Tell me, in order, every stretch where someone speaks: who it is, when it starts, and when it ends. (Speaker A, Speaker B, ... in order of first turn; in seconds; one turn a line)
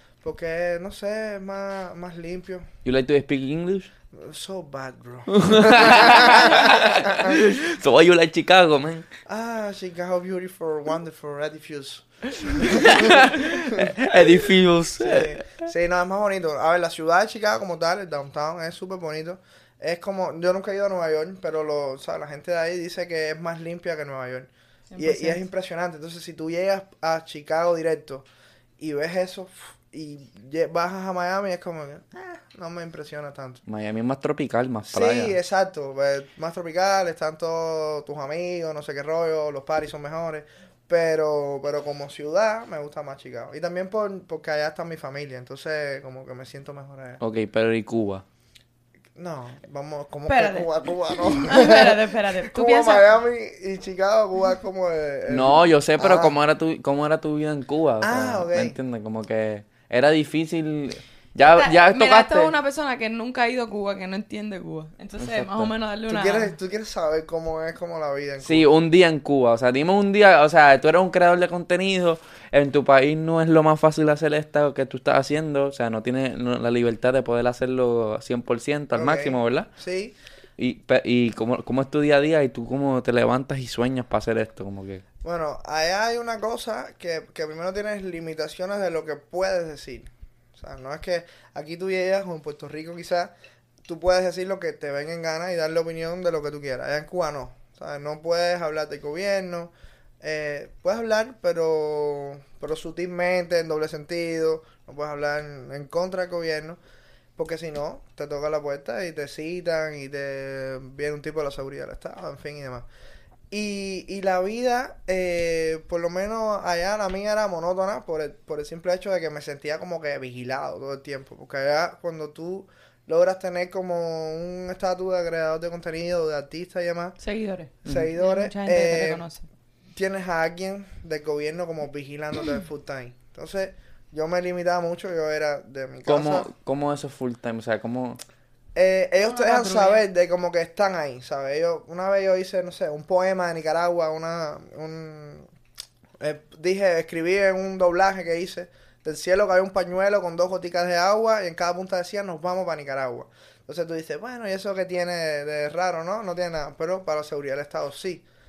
Speaker A: 0.2-2.7
Speaker B: 2.9-3.9
Speaker A: 4.1-7.4
Speaker B: 5.3-9.1
Speaker A: 9.3-14.1
Speaker B: 12.5-15.6
Speaker A: 15.0-28.3
Speaker C: 24.9-25.4
Speaker A: 28.8-33.6
Speaker B: 33.7-35.4
Speaker A: 34.9-47.2
Speaker B: 47.2-48.2
Speaker A: 49.2-56.4
Speaker C: 50.3-53.1
Speaker B: 55.3-62.5
Speaker A: 58.0-58.8
Speaker C: 61.4-66.5
Speaker B: 65.2-65.7
Speaker A: 66.1-68.7
Speaker B: 68.4-79.7
Speaker A: 78.9-80.2
Speaker B: 80.6-85.0
Speaker A: 85.2-93.3
Speaker A: 93.8-106.8
Speaker A: 107.4-112.9
Speaker A: 113.5-127.2
Speaker C: 127.2-129.4
Speaker A: 127.8-129.2
Speaker A: 129.9-136.5
Speaker B: 136.1-138.2
Speaker A: 138.8-145.5
Speaker C: 139.3-140.0
Speaker A: 146.2-158.2